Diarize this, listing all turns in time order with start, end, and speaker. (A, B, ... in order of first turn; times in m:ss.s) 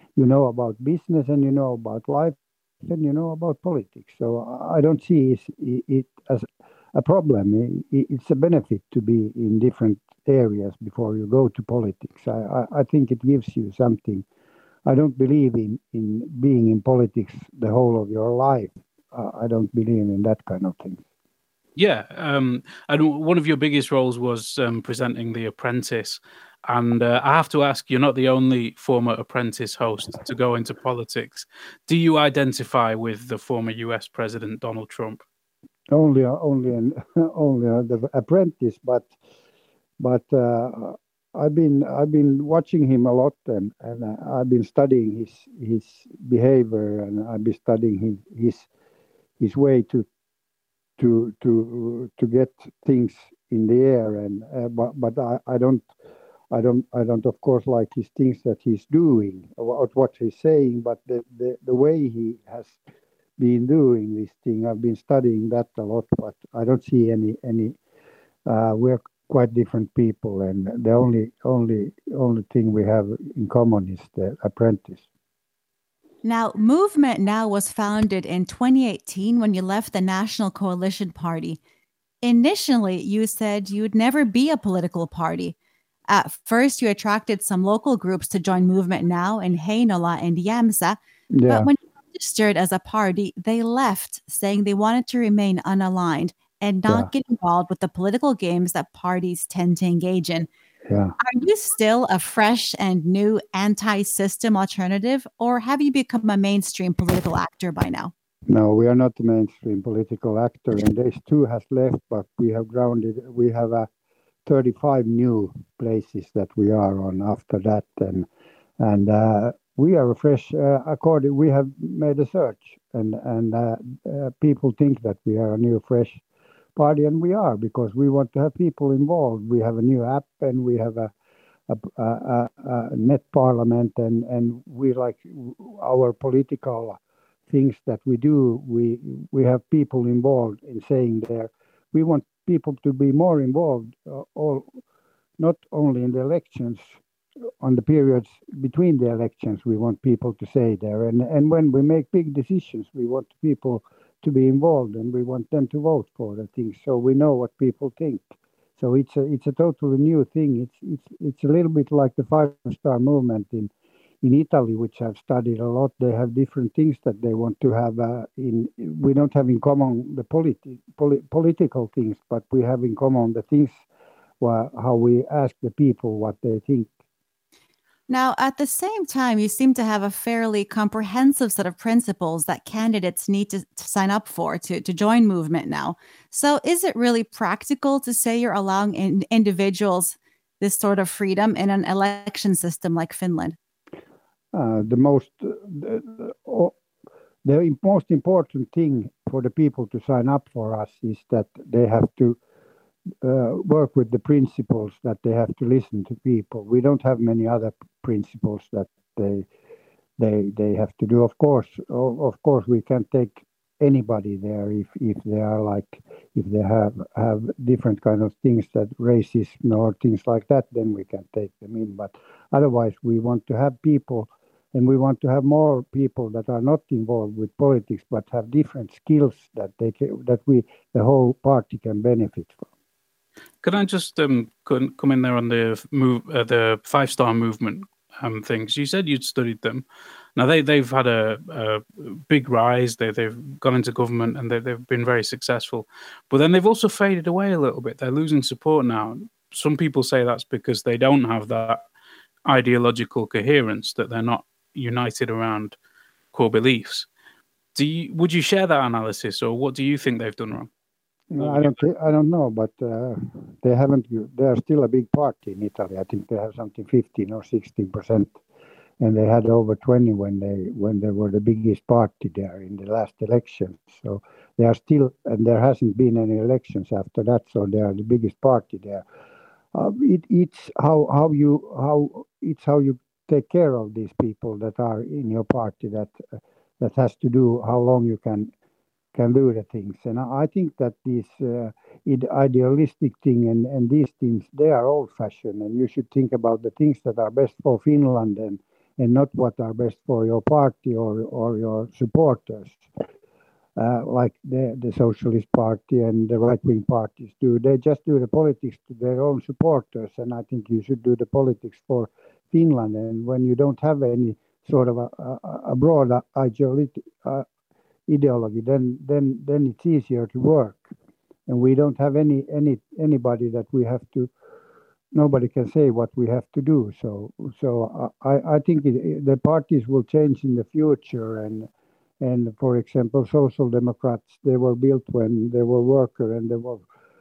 0:00.2-0:14.2 A
0:14.9-0:21.0 A
0:21.8-0:35.2 B
0:35.9-0:39.1 A
0:40.0-0:48.7 A
0:49.4-0:50.1 A
0:51.0-0:55.9 A
0:56.5-1:02.8 A
1:03.4-1:07.8 A
1:08.5-1:15.0 A
1:16.2-1:21.6 C
1:22.2-1:25.6 C
1:26.1-1:40.5 C
1:31.3-1:31.7 A
1:40.9-1:41.2 A
1:41.2-1:48.1 C
1:48.5-1:53.9 A
1:54.5-1:58.3 A
1:58.8-2:06.2 A
2:06.8-2:11.1 A
2:11.7-2:24.7 A
2:25.4-2:26.9 A
2:27.6-2:43.7 A
2:44.2-2:53.8 A
2:54.4-2:56.9 A
2:58.1-3:13.6 C
3:14.5-3:16.8 A
3:17.4-3:22.4 A
3:23.2-3:29.5 A
3:30.2-3:52.7 A
3:53.6-3:59.8 B
4:00.4-4:11.8 B
4:12.5-4:15.8 B
4:16.3-4:17.1 B
4:17.8-4:20.7 B
4:21.3-4:28.3 A
4:21.4-4:21.8 B
4:29.0-4:39.0 A
4:39.7-4:46.2 A
4:46.8-4:48.5 A
4:49.1-5:02.8 A
5:03.8-5:17.5 A
5:18.1-5:20.9 A
5:21.5-5:24.3 A
5:25.1-5:31.7 A
5:32.2-5:36.8 A